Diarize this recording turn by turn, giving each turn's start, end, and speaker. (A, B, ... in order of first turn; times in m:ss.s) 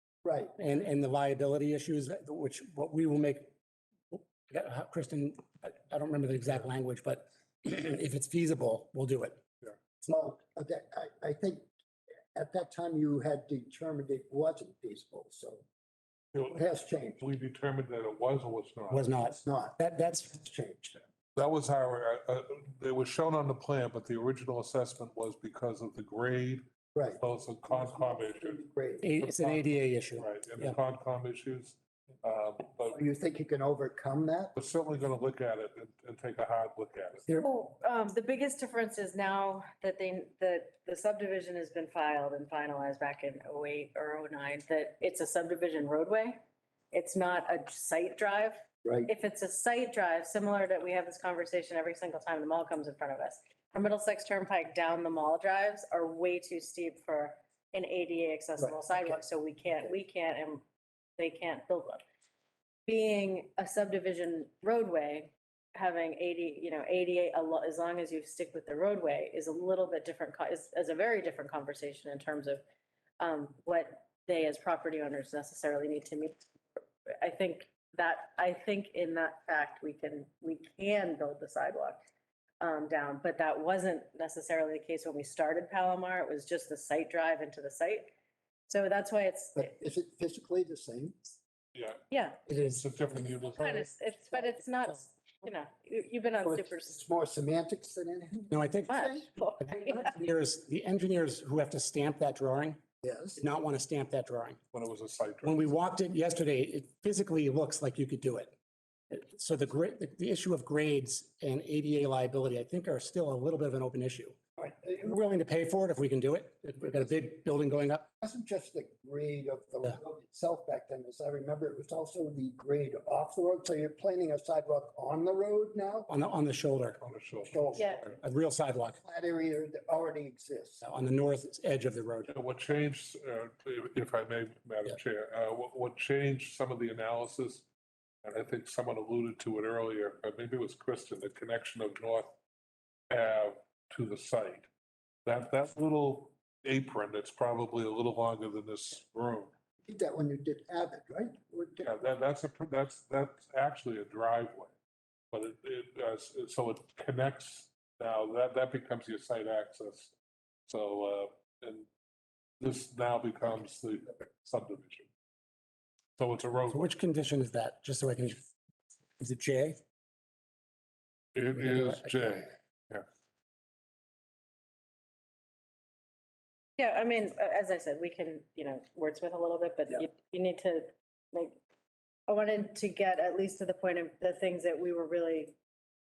0:00.2-0:00.6 A
0:00.6-0:03.5 B
0:04.1-0:09.4 B
0:10.0-0:11.7 A
0:12.3-0:15.6 A
0:16.3-0:16.6 C
0:16.5-0:17.2 A
0:17.2-0:19.1 C
0:18.9-0:20.4 B
0:19.2-0:21.0 A
0:21.3-0:26.6 C
0:26.9-0:29.1 A
0:27.2-0:28.6 C
0:29.0-0:30.8 B
0:29.2-0:33.0 C
0:32.9-0:34.5 A
0:34.5-0:37.2 C
0:37.4-0:46.4 D
0:46.9-1:00.6 D
0:48.8-0:49.1 A
0:58.6-0:59.2 A
1:01.2-1:02.0 D
1:02.9-1:12.6 D
1:13.2-1:16.4 D
1:17.1-1:22.0 D
1:22.6-1:28.1 D
1:28.7-1:29.7 D
1:29.6-1:31.3 A
1:31.7-1:32.0 C
1:32.1-1:32.4 D
1:32.5-1:33.2 B
1:32.6-1:33.9 C
1:33.6-1:37.0 D
1:36.4-1:39.3 A
1:38.5-1:42.8 B
1:38.9-1:40.1 D
1:43.0-1:43.4 A
1:43.4-1:44.6 B
1:44.7-1:45.7 C
1:45.4-1:48.5 B
1:49.1-1:54.4 B
1:54.6-1:55.1 A
1:55.0-1:58.1 B
1:58.2-2:06.1 A
2:06.1-2:07.0 B
2:07.0-2:08.2 C
2:07.4-2:08.0 A
2:07.7-2:08.0 D
2:08.2-2:09.0 B
2:09.0-2:10.8 A
2:10.8-2:12.4 B
2:12.3-2:17.6 C
2:18.2-2:22.4 C
2:23.1-2:24.7 C
2:25.2-2:29.5 C
2:29.8-2:32.0 A
2:31.8-2:34.7 C
2:35.3-2:40.1 C
2:40.7-2:41.9 C
2:42.6-2:45.1 C
2:46.2-2:46.9 C
2:46.7-2:48.4 B
2:49.2-2:49.8 B
2:51.3-2:53.0 C
2:51.6-2:52.4 B
2:56.8-3:01.6 D
3:02.3-3:05.6 D